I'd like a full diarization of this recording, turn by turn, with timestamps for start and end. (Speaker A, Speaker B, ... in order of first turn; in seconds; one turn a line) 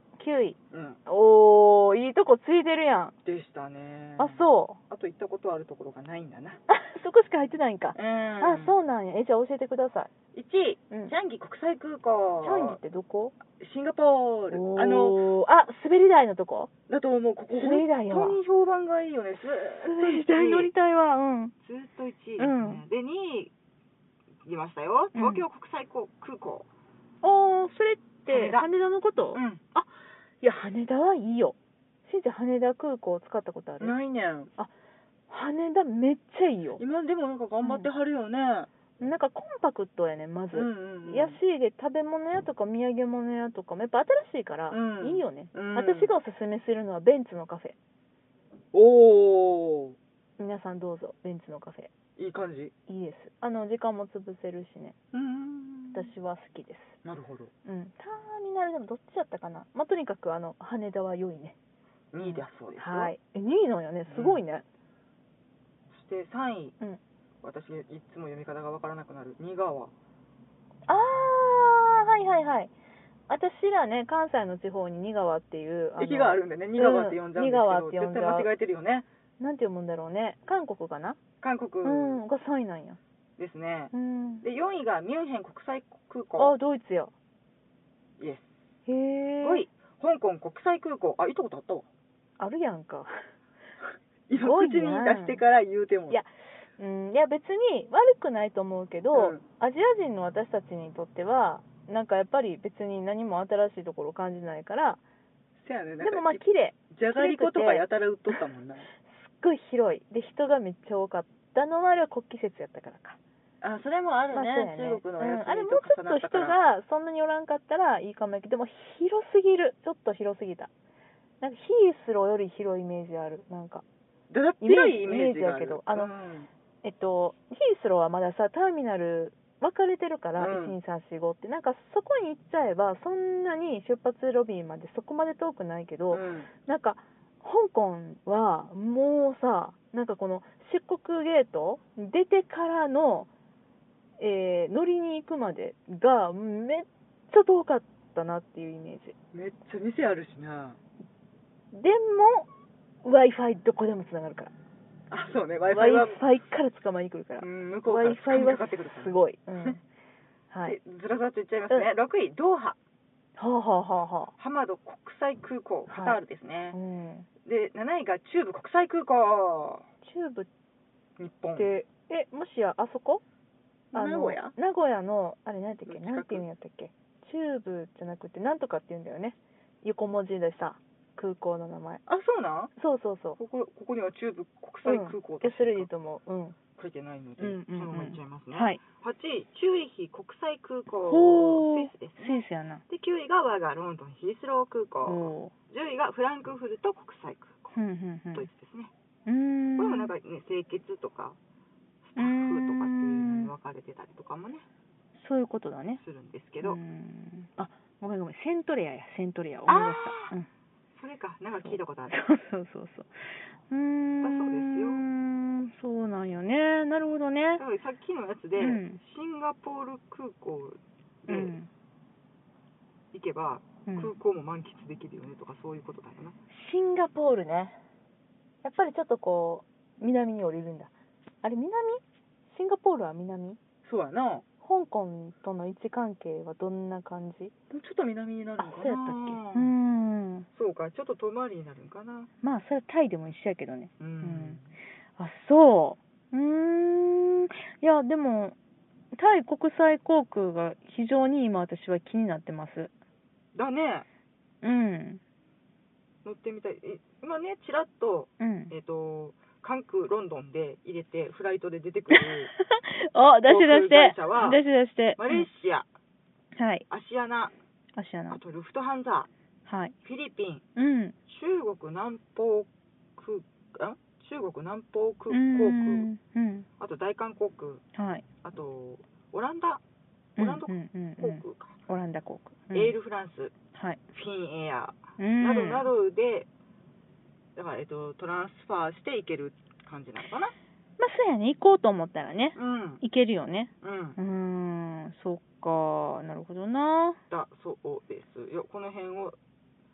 Speaker A: 0.2-3.1
Speaker B: 0.7-1.0
Speaker B: 3.2-6.6
Speaker A: 4.2-4.8
Speaker A: 6.7-10.1
Speaker B: 8.0-8.7
Speaker B: 10.3-12.8
Speaker A: 12.4-13.3
Speaker B: 13.6-15.3
Speaker A: 14.5-16.7
Speaker B: 16.9-20.7
Speaker A: 17.5-18.4
Speaker A: 19.8-21.5
Speaker B: 21.6-23.5
Speaker A: 22.4-22.8
Speaker B: 24.4-26.7
Speaker A: 25.1-25.4
Speaker A: 27.2-29.9
Speaker B: 28.3-28.7
Speaker B: 29.3-29.6
Speaker A: 30.4-33.9
Speaker B: 33.8-34.5
Speaker A: 35.3-36.8
Speaker B: 36.8-38.7
Speaker A: 37.6-37.9
Speaker A: 39.0-47.8
Speaker B: 40.5-41.4
Speaker B: 44.7-46.1
Speaker B: 48.7-50.0
Speaker A: 50.4-51.9
Speaker B: 52.2-52.7
Speaker A: 52.9-55.0
Speaker B: 55.1-56.1
Speaker A: 55.9-57.0
Speaker B: 57.0-57.5
Speaker A: 57.6-61.6
Speaker B: 62.1-63.1
Speaker A: 62.2-64.7
Speaker B: 64.1-64.4
Speaker B: 65.9-66.8
Speaker B: 67.4-69.9
Speaker A: 70.9-72.7
Speaker A: 73.3-78.5
Speaker B: 76.0-79.1
Speaker A: 79.4-81.2
Speaker B: 81.4-82.2
Speaker A: 81.8-83.0
Speaker B: 83.4-83.9
Speaker A: 83.9-84.5
Speaker B: 84.4-86.5
Speaker A: 86.4-87.1
Speaker B: 88.2-88.7
Speaker A: 88.9-89.7
Speaker B: 89.4-91.9
Speaker A: 92.4-93.1
Speaker B: 94.3-96.2
Speaker A: 94.4-95.4
Speaker A: 96.8-105.0
Speaker B: 99.1-99.4
Speaker B: 105.6-108.9
Speaker A: 106.0-108.3
Speaker A: 109.1-113.2
Speaker B: 113.6-116.6
Speaker A: 114.3-120.7
Speaker A: 121.4-123.8
Speaker B: 124.3-126.5
Speaker A: 124.6-126.1
Speaker A: 126.8-143.3
Speaker B: 130.4-130.8
Speaker B: 136.1-136.5
Speaker A: 144.2-149.2
Speaker B: 149.3-150.8
Speaker A: 151.7-152.5
Speaker A: 153.0-154.5
Speaker B: 155.1-156.2
Speaker A: 155.7-159.8
Speaker B: 157.4-159.8
Speaker A: 160.5-160.8
Speaker B: 160.7-162.8
Speaker A: 163.4-164.3
Speaker B: 164.4-166.8
Speaker A: 165.9-166.2
Speaker A: 166.7-167.3
Speaker B: 167.4-169.8
Speaker A: 170.0-170.5
Speaker B: 171.2-171.7
Speaker A: 171.6-173.2
Speaker B: 173.9-174.5
Speaker A: 173.9-182.0
Speaker B: 175.9-176.4
Speaker B: 182.1-182.7
Speaker A: 182.8-183.4
Speaker B: 183.4-185.9
Speaker A: 184.8-186.6
Speaker B: 186.8-197.8
Speaker A: 187.4-188.8
Speaker A: 191.0-192.8
Speaker A: 195.1-195.5
Speaker A: 197.8-198.5
Speaker B: 198.3-198.9
Speaker A: 199.3-200.1
Speaker B: 199.8-201.4
Speaker B: 202.0-204.7
Speaker A: 202.2-203.5
Speaker A: 205.2-206.0
Speaker B: 206.0-206.8
Speaker A: 206.6-210.5
Speaker B: 209.7-210.3
Speaker B: 210.9-212.2
Speaker A: 211.6-217.6
Speaker B: 214.2-215.0
Speaker B: 217.6-221.6
Speaker A: 218.6-219.0
Speaker A: 221.3-221.7
Speaker B: 223.1-226.4
Speaker A: 223.9-224.1
Speaker A: 226.5-227.8
Speaker A: 228.6-230.9
Speaker A: 231.4-233.6
Speaker B: 233.8-234.4
Speaker A: 234.6-237.5
Speaker B: 237.7-239.7
Speaker A: 238.6-240.5
Speaker B: 240.5-242.3
Speaker A: 242.4-244.6
Speaker B: 244.0-244.6
Speaker A: 245.2-248.6
Speaker A: 249.1-252.9
Speaker B: 253.6-254.1
Speaker A: 254.6-255.2
Speaker B: 256.2-262.5
Speaker A: 258.4-258.7
Speaker A: 262.1-265.5
Speaker B: 263.5-264.6
Speaker B: 265.2-265.9
Speaker A: 266.6-266.9
Speaker B: 266.9-267.5
Speaker A: 268.0-268.4
Speaker B: 268.3-269.3
Speaker A: 269.7-269.9
Speaker B: 270.0-270.6
Speaker A: 270.8-271.2
Speaker B: 271.3-276.1
Speaker A: 275.3-276.7
Speaker B: 276.8-277.8
Speaker A: 277.9-278.2
Speaker B: 278.4-279.8
Speaker A: 280.4-283.0
Speaker B: 280.4-281.8
Speaker B: 282.7-283.5
Speaker A: 283.7-284.0
Speaker B: 284.1-286.5
Speaker A: 285.2-285.9
Speaker B: 287.6-290.5
Speaker A: 291.0-297.2
Speaker B: 292.6-293.0
Speaker B: 293.8-294.2
Speaker B: 297.3-299.4